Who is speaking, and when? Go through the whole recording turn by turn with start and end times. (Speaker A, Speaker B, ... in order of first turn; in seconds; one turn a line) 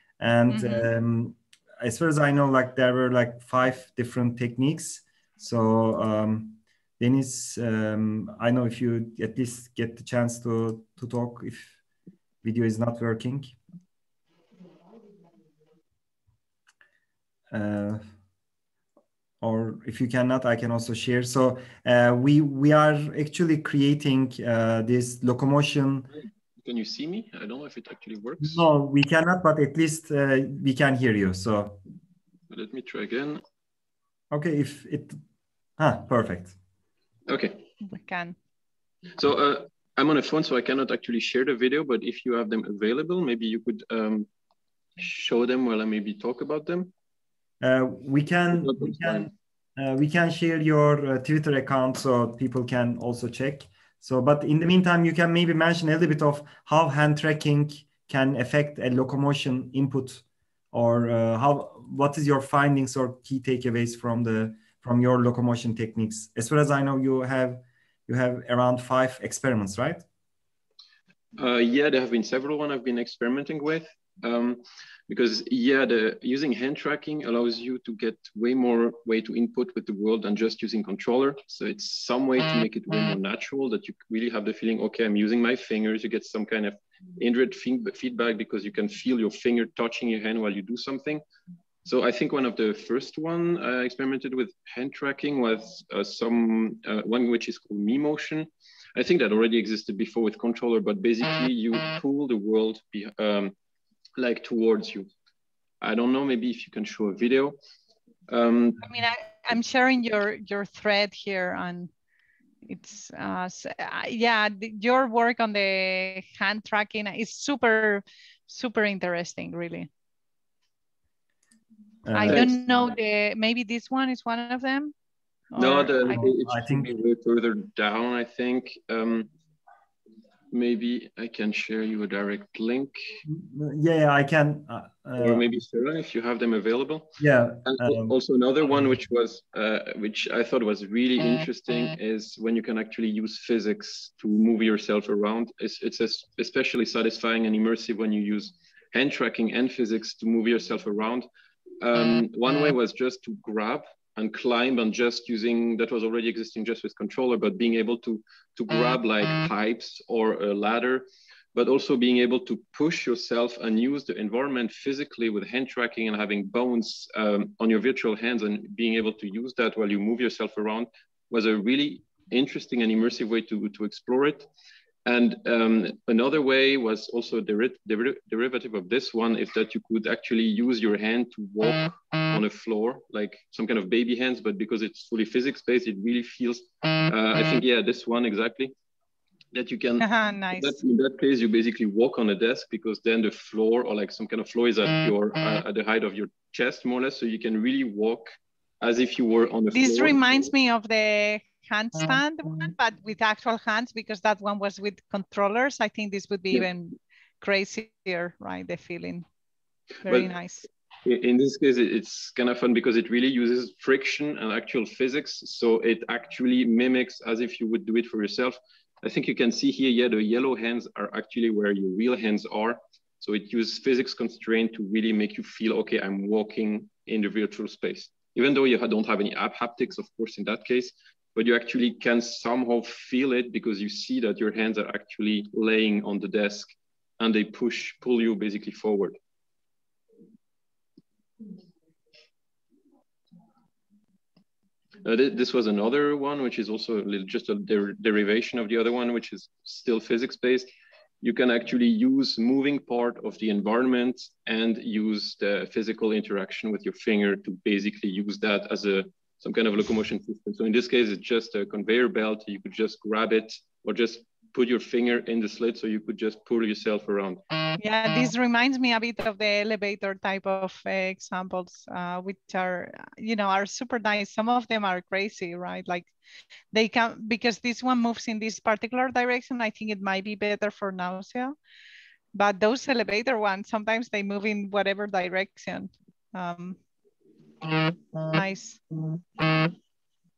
Speaker A: 0.2-11.7
Speaker B: 0.5-0.9
Speaker A: 12.4-13.6
Speaker A: 17.5-18.0
Speaker A: 19.4-26.1
Speaker C: 26.6-28.6
Speaker A: 28.4-31.8
Speaker C: 32.5-33.4
Speaker A: 34.3-35.2
Speaker A: 35.8-36.5
Speaker C: 37.3-37.6
Speaker B: 37.8-38.4
Speaker C: 39.1-44.3
Speaker C: 45.0-46.9
Speaker A: 47.6-70.0
Speaker C: 48.5-49.3
Speaker C: 71.3-91.2
Speaker C: 91.8-103.5
Speaker C: 104.2-105.1
Speaker C: 105.8-107.6
Speaker C: 108.3-108.8
Speaker B: 108.8-111.9
Speaker B: 112.6-119.9
Speaker A: 122.0-122.6
Speaker B: 122.1-124.9
Speaker C: 122.2-122.5
Speaker B: 125.5-126.2
Speaker C: 125.5-129.3
Speaker A: 126.1-127.0
Speaker C: 130.5-133.0
Speaker A: 133.2-135.4
Speaker C: 135.2-151.3
Speaker A: 137.2-138.1
Speaker C: 151.8-174.5
Speaker C: 175.0-188.7
Speaker C: 189.5-200.2
Speaker B: 190.0-190.8
Speaker B: 199.7-209.2
Speaker B: 210.0-210.7
Speaker C: 210.1-210.3
Speaker C: 211.0-239.2
Speaker C: 245.0-250.7
Speaker C: 251.2-267.4
Speaker B: 267.8-276.1
Speaker B: 276.7-281.5
Speaker B: 282.3-286.8
Speaker B: 288.3-288.8